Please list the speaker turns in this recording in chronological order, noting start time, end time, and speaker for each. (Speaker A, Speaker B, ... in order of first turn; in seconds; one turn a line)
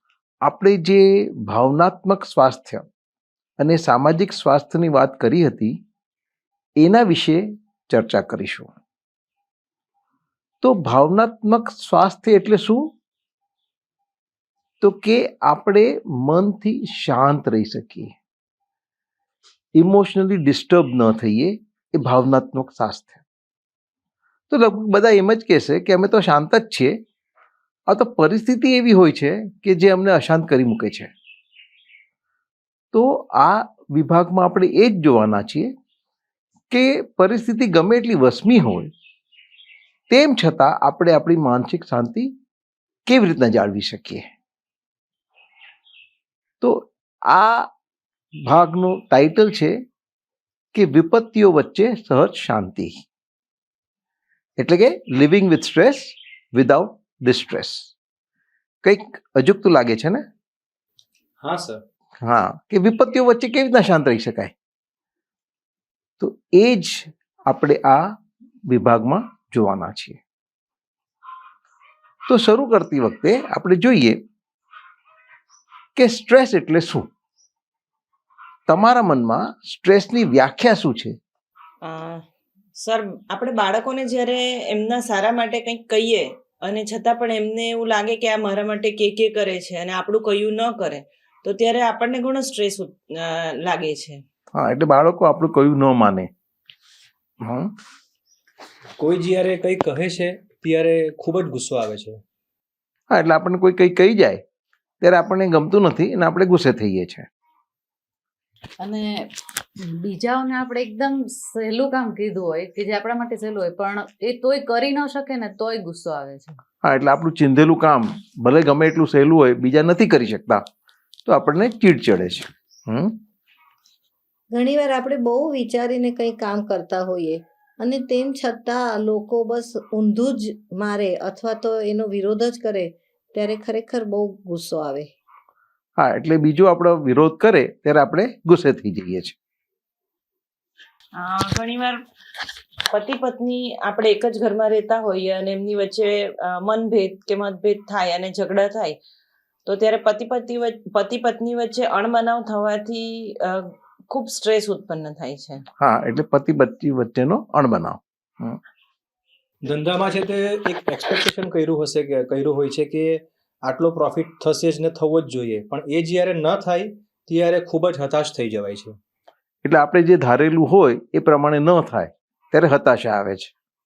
Speaker A: 0.4-2.8
Speaker A: 3.6-5.7
Speaker A: 6.8-8.7
Speaker A: 10.6-12.9
Speaker A: 14.8-18.1
Speaker A: 19.8-23.2
Speaker A: 24.5-26.9
Speaker A: 27.9-31.1
Speaker A: 32.9-35.7
Speaker A: 36.7-38.9
Speaker A: 40.1-42.3
Speaker A: 43.1-44.2
Speaker A: 46.6-47.7
Speaker A: 48.4-49.7
Speaker A: 50.7-53.0
Speaker A: 54.6-57.9
Speaker A: 58.8-60.2
Speaker B: 61.4-61.8
Speaker A: 62.2-64.5
Speaker A: 66.2-68.0
Speaker A: 68.7-70.2
Speaker A: 72.3-74.2
Speaker A: 76.0-77.1
Speaker A: 78.7-81.1
Speaker C: 81.8-82.2
Speaker C: 82.8-94.2
Speaker A: 94.5-96.3
Speaker A: 97.4-97.7
Speaker B: 99.0-102.2
Speaker A: 103.1-104.4
Speaker A: 105.0-107.3
Speaker D: 108.8-109.2
Speaker D: 109.8-116.5
Speaker A: 116.8-120.6
Speaker A: 121.2-123.2
Speaker E: 124.5-135.1
Speaker A: 136.0-139.3
Speaker C: 141.2-142.0
Speaker C: 142.9-148.9
Speaker C: 149.7-155.6
Speaker A: 155.8-158.6
Speaker B: 159.6-169.0
Speaker A: 169.6-173.5